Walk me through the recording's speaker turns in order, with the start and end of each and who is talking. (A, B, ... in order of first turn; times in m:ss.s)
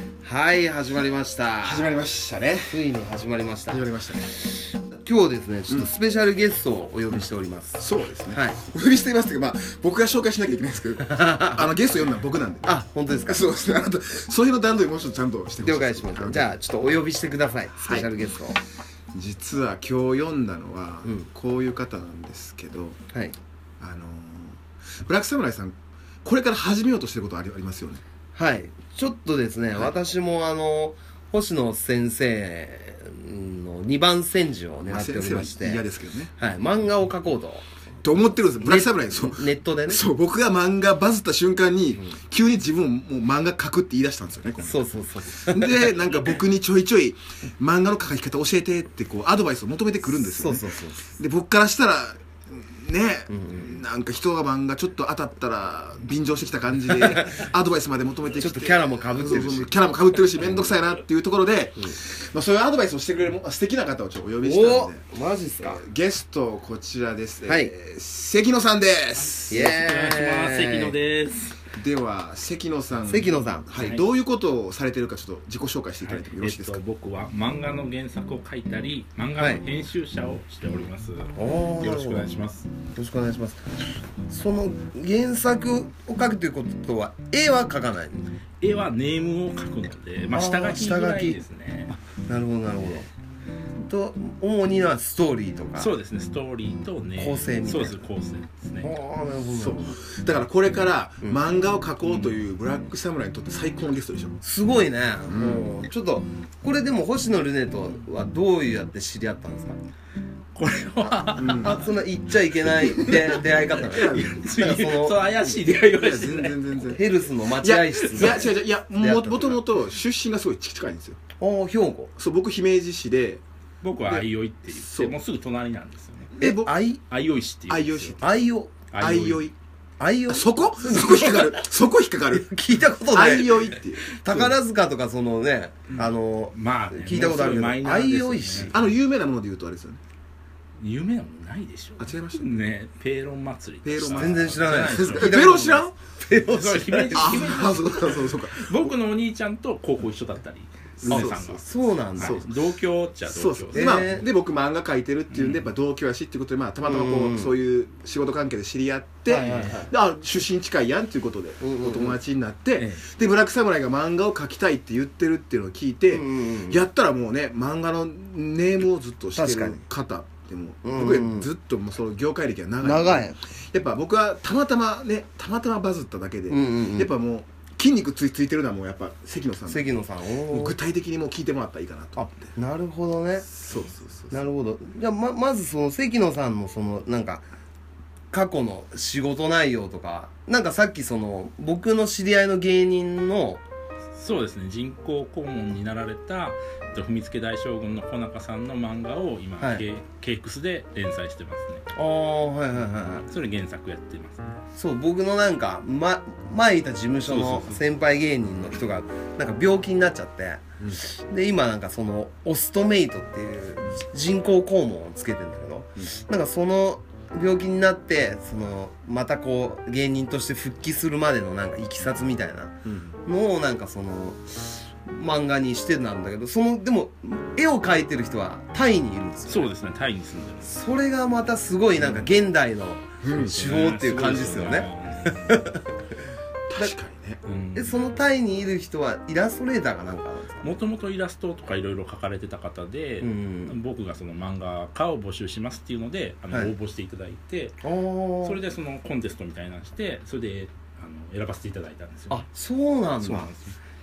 0:00.2-0:01.9 A
0:01.6-0:02.8 B
0:02.7-0:03.8 A
0:03.7-0:04.4 B
0:04.9-0:08.6 A
0:07.8-0:16.5 B
0:11.0-0:11.7 A
0:12.6-0:13.5 A
0:15.6-0:18.6 A
0:17.8-0:18.1 B
0:19.1-0:23.0 B
0:23.8-0:28.0 B
0:28.4-0:35.8 A
0:34.9-0:36.3 B
0:36.4-0:37.7 A
0:38.0-1:05.0 B
0:38.6-0:40.0 A
0:44.6-0:46.0 A
0:50.2-0:51.0 A
0:53.3-0:53.8 A
0:58.4-0:59.8 A
1:04.4-1:05.8 A
1:05.6-1:09.7 B
1:07.5-1:07.7 A
1:09.2-1:11.6 C
1:09.5-1:11.0 A
1:11.7-1:16.8 B
1:13.1-1:13.8 A
1:16.0-1:22.7 C
1:19.4-1:19.6 A
1:21.4-1:22.3 A
1:23.0-1:23.6 A
1:24.3-1:28.2 A
1:28.6-1:32.0 C
1:30.3-1:31.4 A
1:32.3-1:33.1 A
1:33.8-1:35.9 A
1:35.8-1:38.9 C
1:37.2-1:38.0 A
1:38.8-1:40.0 A
1:39.5-1:44.4 B
1:44.4-1:49.8 A
1:45.3-1:45.7 B
1:50.6-1:51.9 C
1:51.0-1:55.3 A
1:51.4-1:51.8 B
1:52.8-1:57.0 C
1:53.9-1:54.5 B
1:55.8-1:57.0 B
1:57.0-1:59.6 A
1:57.6-2:01.2 B
1:58.0-1:58.5 C
2:01.4-2:02.1 A
2:02.2-2:03.4 B
2:03.8-2:06.4 C
2:04.0-2:05.2 B
2:06.4-2:06.8 B
2:06.4-2:07.0 A
2:07.1-2:08.2 C
2:07.7-2:08.4 B
2:08.2-2:08.8 A
2:08.9-2:09.5 C
2:09.0-2:09.5 B
2:10.0-2:11.6 A
2:10.3-2:12.5 B
2:12.3-2:18.8 A
2:13.1-2:14.0 B
2:14.3-2:14.5 C
2:16.0-2:18.8 C
2:18.7-2:20.0 B
2:20.8-2:25.5 C
2:22.0-2:22.6 B
2:23.8-2:25.9 B
2:24.0-2:27.8 A
2:26.3-2:34.1 C
2:27.1-2:28.9 B
2:31.0-2:31.6 B
2:31.1-2:32.4 A
2:32.2-2:32.6 B
2:33.2-2:59.9 B
2:33.7-2:34.2 A
2:35.3-2:35.6 C
2:36.8-2:37.5 A
2:39.3-2:39.9 A
2:39.4-2:39.9 C
2:41.6-2:42.2 A
2:42.8-2:43.0 C
2:46.1-2:46.8 A
2:49.4-2:49.8 A
2:50.8-2:51.5 A
2:52.8-2:53.4 A
2:56.5-2:57.1 A
2:59.7-3:00.8 A
3:00.5-3:02.5 B
3:02.2-3:03.5 A
3:03.5-3:04.5 B
3:04.3-3:07.5 A
3:08.3-3:13.6 A
3:14.2-3:21.9 C
3:19.6-3:19.9 A
3:21.9-3:23.3 A
3:23.3-3:24.6 C
3:24.8-3:49.7 A
3:27.2-3:27.8 C
3:42.9-3:43.2 B
3:49.5-3:50.8 C
3:50.6-3:55.8 A
3:53.2-3:53.6 B
3:53.4-3:55.8 C
3:56.7-3:57.4 B
3:57.4-3:58.0 C
3:57.8-4:00.8 A
4:00.6-4:07.8 C
4:03.2-4:03.8 A
4:07.8-4:08.6 A
4:08.4-4:12.5 C
4:12.3-4:13.5 A
4:13.2-4:13.7 C